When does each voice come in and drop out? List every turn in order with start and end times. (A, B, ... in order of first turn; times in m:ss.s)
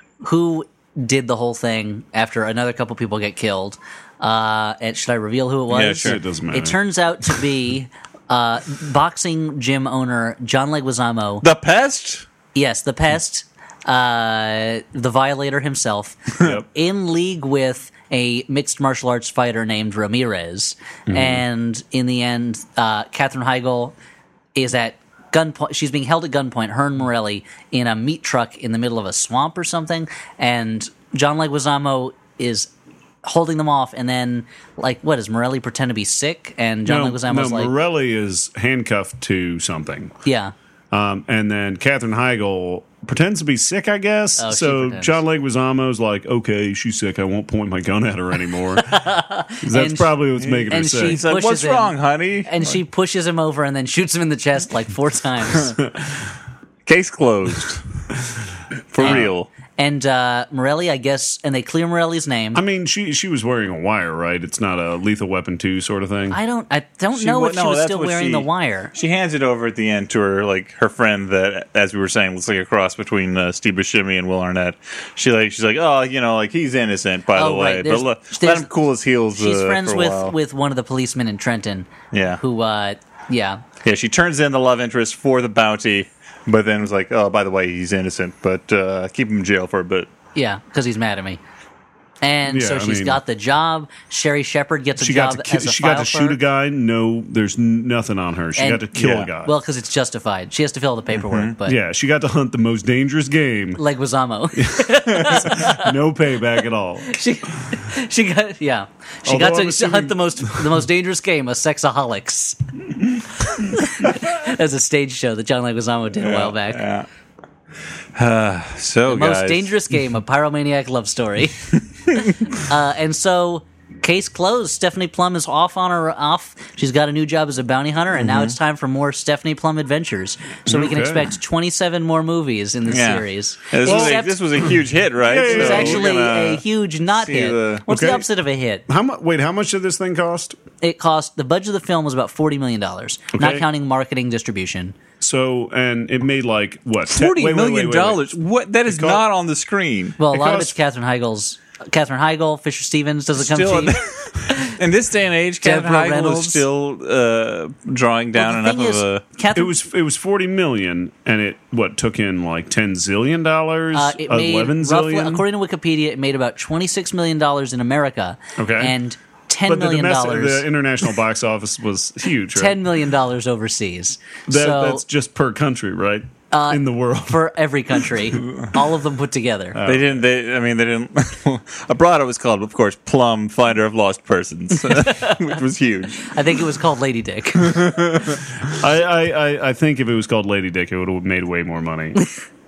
0:00.2-0:11.4 A
0:05.7-0:06.2 B
0:06.0-0:06.8 C
0:11.4-0:12.3 B
0:12.5-0:24.0 A
0:21.1-0:21.4 C
0:24.6-0:32.7 A
0:33.2-0:37.7 A
0:36.8-0:40.1 C
0:40.2-0:40.5 A
0:40.9-0:49.0 C
0:44.4-0:45.2 A
0:48.8-0:51.9 A
0:49.6-0:51.2 C
0:50.4-0:52.5 B
0:52.4-0:55.8 A
0:56.9-0:57.8 B
0:58.9-0:59.5 B
0:59.0-1:02.6 A
0:59.0-0:59.3 C
1:02.6-1:06.4 C
1:06.3-1:08.9 A
1:07.2-1:20.3 B
1:17.4-1:18.7 A
1:19.4-1:23.6 A
1:22.1-1:22.4 B
1:23.8-1:30.1 B
1:30.4-1:31.4 A
1:32.2-1:36.4 A
1:32.5-1:33.2 C
1:35.0-1:39.5 C
1:38.6-1:41.8 A
1:39.0-1:39.3 B
1:41.3-1:41.5 B
1:41.6-1:43.8 C
1:43.8-1:45.9 A
1:44.6-1:47.2 C
1:47.0-1:52.6 A
1:49.2-1:50.7 C
1:53.4-1:56.8 A
1:56.2-1:57.1 B
1:58.2-1:59.7 B
1:59.1-2:14.4 A
2:08.2-2:08.6 B
2:10.7-2:11.3 C
2:12.9-2:16.6 B
2:13.8-2:14.2 C
2:15.3-2:16.1 C
2:15.4-2:18.8 A
2:17.1-2:18.1 B
2:17.9-2:18.2 C
2:18.9-2:20.6 C
2:20.8-2:25.0 A
2:23.3-2:23.6 C
2:25.2-2:28.3 C
2:27.1-2:30.2 B
2:28.9-2:29.2 C
2:30.2-2:34.8 A
2:30.3-2:30.8 C
2:33.4-2:39.2 B
2:35.6-2:36.6 A
2:38.4-2:39.8 A
2:39.5-2:45.4 C
2:43.9-2:50.7 A
2:48.6-2:49.0 C
2:49.7-2:52.8 C
2:52.5-2:55.0 A
2:54.5-2:57.5 C
2:56.5-2:59.8 A
2:59.7-3:00.2 C
2:59.8-3:06.3 B
3:05.0-3:05.4 A
3:06.2-3:07.8 A
3:07.6-3:08.4 B
3:08.6-3:12.2 C